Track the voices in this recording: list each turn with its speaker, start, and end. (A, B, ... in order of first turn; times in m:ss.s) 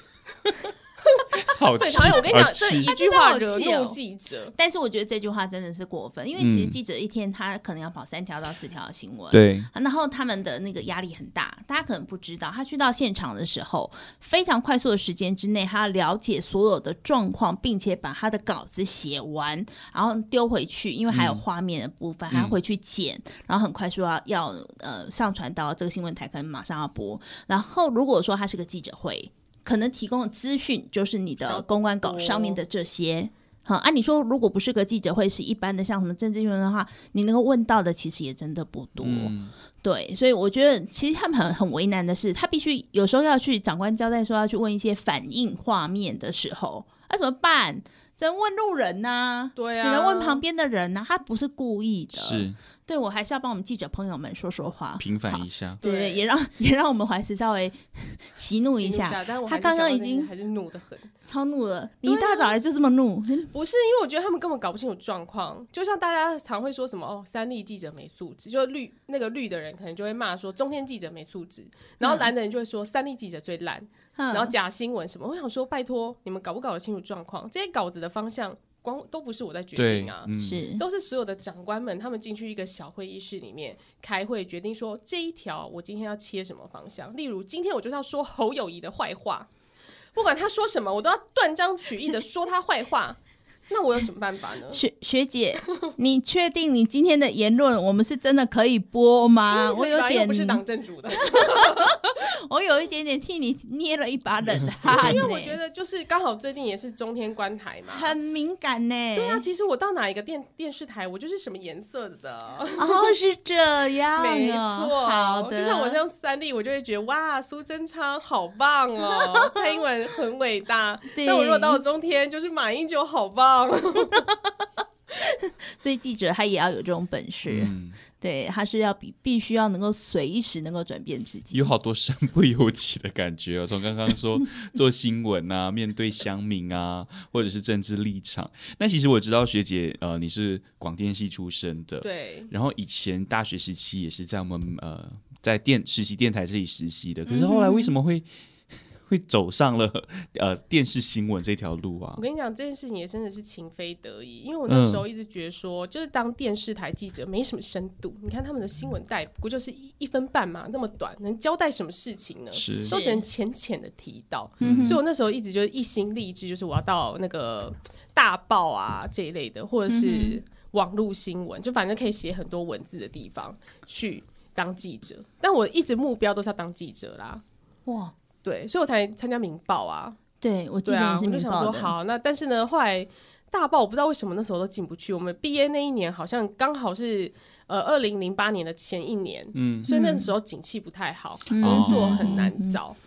0:01.1-0:04.5 A
0:01.4-0:02.9 B
0:02.0-0:04.0 C
0:04.5-1:00.3 C
0:06.4-0:06.8 B
0:09.3-0:09.7 B
0:21.1-0:21.4 B
0:22.3-0:22.6 B
0:31.4-0:32.6 A
0:39.0-0:39.5 B
0:49.6-0:50.4 A
0:52.1-0:52.6 B
0:55.0-0:55.8 B
0:55.8-0:56.2 A
0:58.7-1:01.1 A
1:01.3-1:03.5 C
1:02.0-1:02.6 A
1:03.5-1:29.5 A
1:12.0-1:12.3 C
1:14.2-1:14.5 C
1:19.8-1:20.6 B
1:20.4-1:20.8 C
1:30.1-1:33.2 A
1:33.7-1:34.8 A
1:34.7-1:40.6 C
1:39.5-1:42.0 A
1:41.2-1:45.6 C
1:44.9-1:48.1 A
1:47.9-1:49.4 C
1:49.2-1:53.2 A
1:52.8-1:56.0 C
1:54.2-2:04.3 A
1:59.1-1:59.7 C
2:01.1-2:01.8 C
2:04.1-2:04.5 C
2:05.2-2:11.7 C
2:07.5-2:08.0 B
2:11.5-2:28.3 B
2:22.0-2:22.5 A
2:27.3-2:27.9 C
2:29.1-2:32.2 B
2:32.2-2:57.4 A
2:34.7-2:35.0 B
2:42.6-2:42.9 B
2:42.9-2:43.2 C
2:44.6-2:45.0 B
2:44.6-2:45.0 C
2:49.9-2:50.4 C
2:57.9-2:58.1 C
2:58.4-3:00.2 A
3:00.4-3:01.9 C
3:00.8-3:13.0 A
3:09.6-3:09.9 B
3:09.9-3:10.3 C
3:11.5-3:12.8 C
3:11.6-3:12.4 B